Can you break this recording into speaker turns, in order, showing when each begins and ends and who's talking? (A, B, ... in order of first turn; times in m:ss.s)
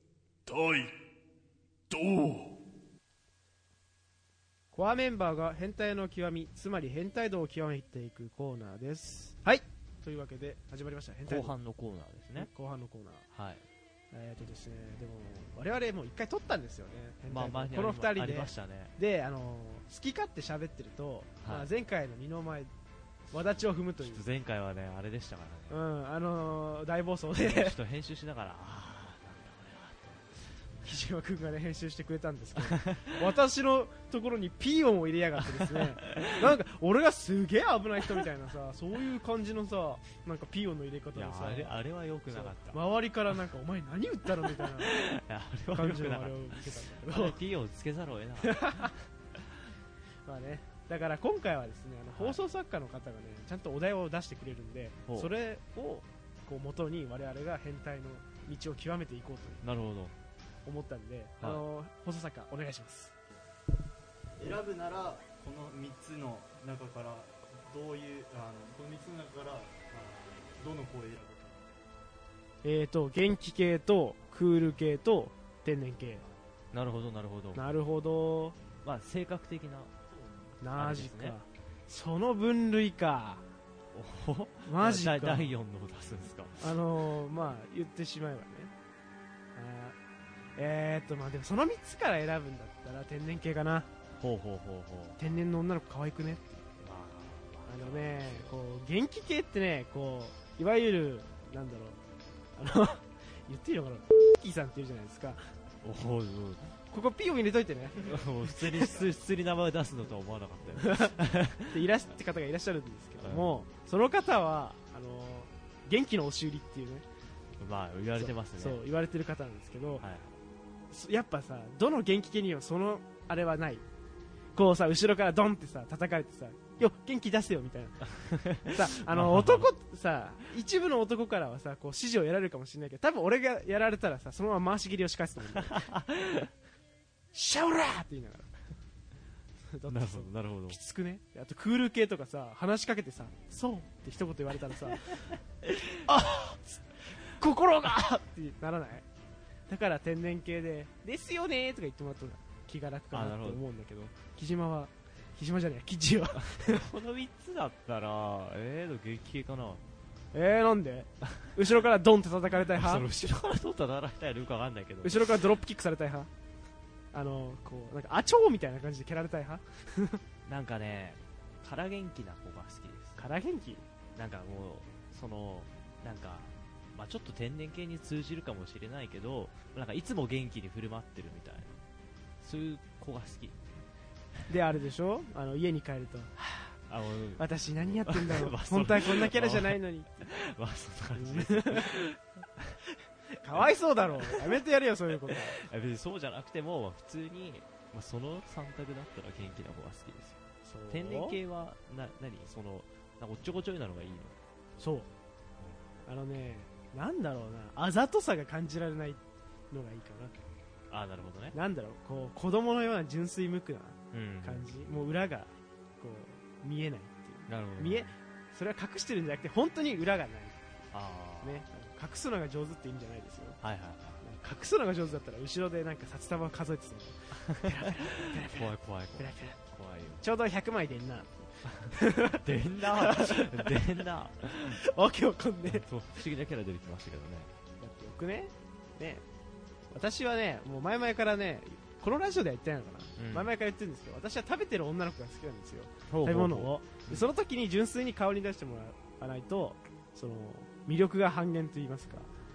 0:04.7-0:11.6 A
0:11.2-0:12.5 B
0:12.4-0:13.3 A
0:13.3-0:13.6 B
0:14.1-0:22.7 A
0:17.3-0:18.9 B
0:21.4-0:21.7 B
0:23.3-0:24.3 A
0:24.0-0:25.8 B
0:25.7-0:27.8 A
0:27.4-0:30.8 B
0:30.8-0:45.0 A
0:32.6-0:33.3 B
0:35.6-0:36.5 B
0:41.1-0:42.8 B
0:44.4-0:49.0 B
0:45.7-0:47.4 A
0:48.4-0:48.9 A
0:50.2-0:59.6 A
0:59.6-1:00.1 B
1:00.6-1:03.2 A
1:04.4-1:11.7 C
1:12.6-1:16.2 A
1:16.7-1:17.7 B
1:17.6-1:18.6 A
1:18.8-1:19.9 B
1:20.2-1:20.5 C
1:20.6-1:23.4 A
1:20.7-1:21.4 B
1:23.9-1:26.7 B
1:24.7-1:25.6 A
1:26.6-1:28.7 A
1:29.6-1:30.0 A
1:30.6-1:33.9 A
1:34.2-1:35.2 B
1:35.2-1:36.7 A
1:36.8-1:38.6 B
1:37.7-1:42.0 A
1:42.6-1:45.4 A
1:45.8-1:46.8 B
1:46.9-1:49.0 A
1:48.0-1:51.8 B
1:50.8-1:51.2 A
1:51.7-1:57.0 A
1:53.2-1:53.6 B
1:57.6-1:58.8 B
1:58.1-2:00.1 A
2:00.0-2:00.4 B
2:00.9-2:03.8 A
2:04.6-2:15.9 A
2:08.3-2:09.7 B
2:15.6-2:16.5 B
2:17.3-2:18.5 A
2:19.7-2:25.2 A
2:19.9-2:20.8 B
2:25.3-2:25.9 B
2:26.0-2:29.1 A
2:29.7-2:36.8 A
2:33.1-2:33.6 B
2:36.5-2:39.8 B
2:40.3-2:43.1 A
2:42.7-2:45.5 B
2:45.0-2:46.3 A
2:47.1-2:50.2 A
2:50.4-2:53.2 B
2:53.2-2:53.9 A
2:54.2-3:01.7 B
3:02.4-3:03.6 B
3:04.5-3:06.8 A
3:06.9-3:07.4 B
3:07.4-3:10.3 A
3:08.0-3:12.7 B
3:11.2-3:12.0 A
3:13.4-3:15.6 A
3:14.2-3:14.6 B
3:15.5-3:24.4 B
3:20.6-3:21.4 A
3:24.8-3:25.1 A
3:26.1-3:30.3 A
3:30.9-3:31.6 B
3:31.5-3:40.7 A
3:34.1-3:34.7 B
3:37.5-3:38.1 B
3:40.9-3:41.6 B
3:41.4-3:43.6 A
3:43.6-3:44.2 B
3:44.2-3:49.6 A
3:47.6-3:50.2 B
3:50.2-3:53.8 A
3:51.8-3:54.8 B
3:54.6-3:55.9 A
3:55.6-3:57.5 B
3:57.8-3:59.2 A
3:59.9-4:12.3 A
4:03.2-4:03.5 B
4:06.1-4:07.3 B